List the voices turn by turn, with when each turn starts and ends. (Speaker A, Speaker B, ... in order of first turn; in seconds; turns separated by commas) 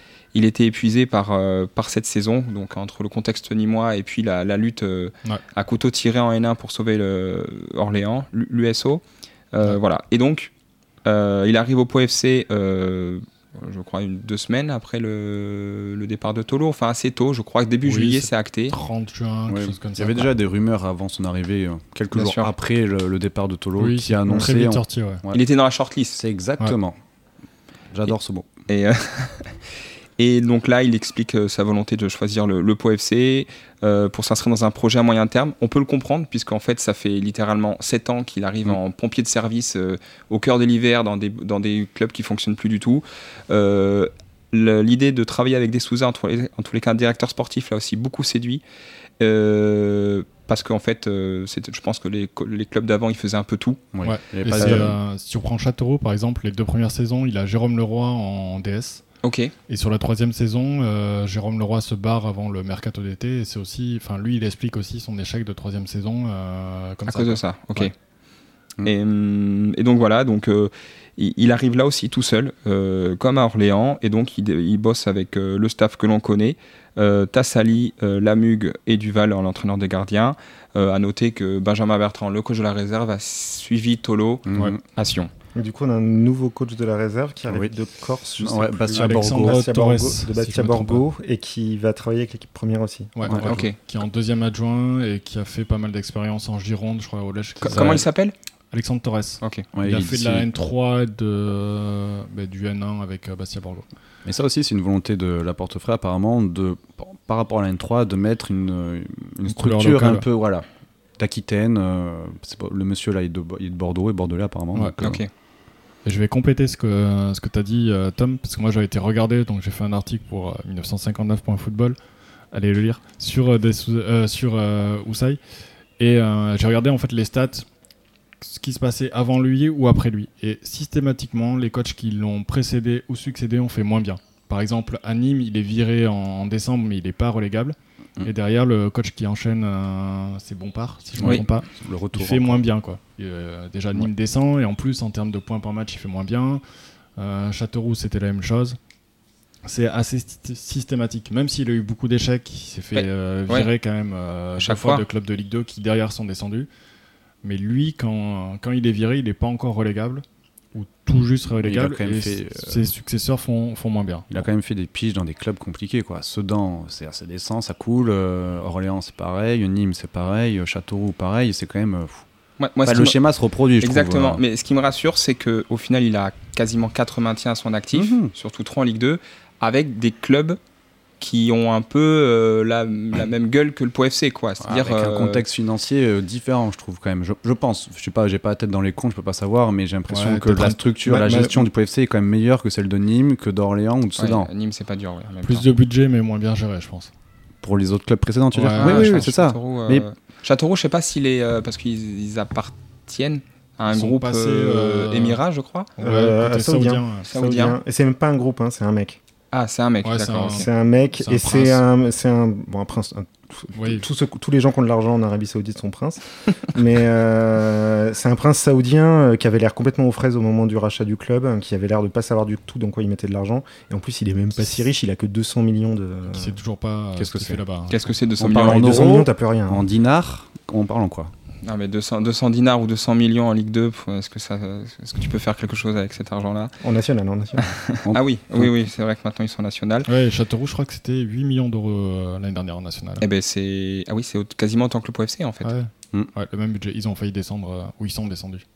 Speaker A: 0.3-9.0, Speaker A: 9.5-10.5, Speaker A: 11.0-18.7, Speaker B: 17.8-20.3, Speaker C: 19.5-25.4, Speaker A: 22.1-22.5, Speaker B: 23.8-25.2, Speaker A: 25.3-26.2, Speaker C: 26.1-27.0, Speaker C: 27.9-28.5, Speaker A: 28.7-29.5, Speaker A: 30.2-48.6, Speaker A: 49.2-53.8, Speaker C: 53.9-55.0, Speaker B: 54.0-59.0, Speaker A: 59.2-59.5, Speaker B: 59.7-67.9, Speaker A: 67.0-67.9, Speaker A: 68.8-85.3, Speaker C: 84.5-84.8, Speaker D: 85.5-93.2, Speaker C: 88.4-89.6, Speaker B: 88.9-91.0, Speaker B: 93.1-98.0, Speaker C: 93.2-93.5, Speaker A: 93.3-93.8, Speaker A: 97.6-98.3, Speaker C: 97.6-98.0, Speaker B: 98.7-103.8, Speaker C: 99.7-100.5, Speaker C: 104.2-110.7, Speaker B: 109.5-110.2, Speaker C: 111.2-115.2, Speaker A: 115.0-115.3, Speaker B: 116.0-122.0, Speaker B: 122.5-125.4, Speaker B: 126.0-127.7, Speaker B: 128.4-146.6, Speaker C: 141.2-142.6, Speaker B: 147.2-148.8, Speaker B: 149.6-156.7, Speaker A: 152.9-153.7, Speaker A: 154.6-155.0, Speaker B: 157.4-164.5, Speaker C: 161.6-162.8, Speaker C: 164.3-172.2, Speaker A: 172.6-173.2, Speaker C: 172.8-174.4, Speaker A: 173.8-180.6, Speaker C: 177.9-178.3, Speaker A: 181.2-185.4, Speaker C: 184.6-194.5, Speaker B: 190.1-190.8, Speaker D: 191.0-191.7, Speaker A: 194.2-195.7, Speaker B: 195.4-197.1, Speaker C: 197.6-200.1, Speaker B: 198.5-199.2, Speaker A: 198.8-205.9, Speaker B: 203.9-205.4, Speaker B: 206.0-207.3, Speaker D: 206.0-209.2, Speaker A: 207.3-207.8, Speaker A: 209.5-210.7, Speaker B: 210.0-210.7, Speaker D: 210.5-226.6, Speaker B: 211.2-211.8, Speaker B: 213.7-214.1, Speaker B: 226.3-228.0, Speaker C: 227.2-227.6, Speaker A: 227.9-229.1, Speaker C: 228.4-231.3, Speaker D: 228.4-229.8, Speaker A: 231.6-236.7, Speaker D: 236.8-237.7, Speaker A: 237.6-240.1, Speaker C: 238.0-238.7, Speaker B: 240.1-243.2, Speaker A: 243.2-245.7, Speaker B: 245.6-248.6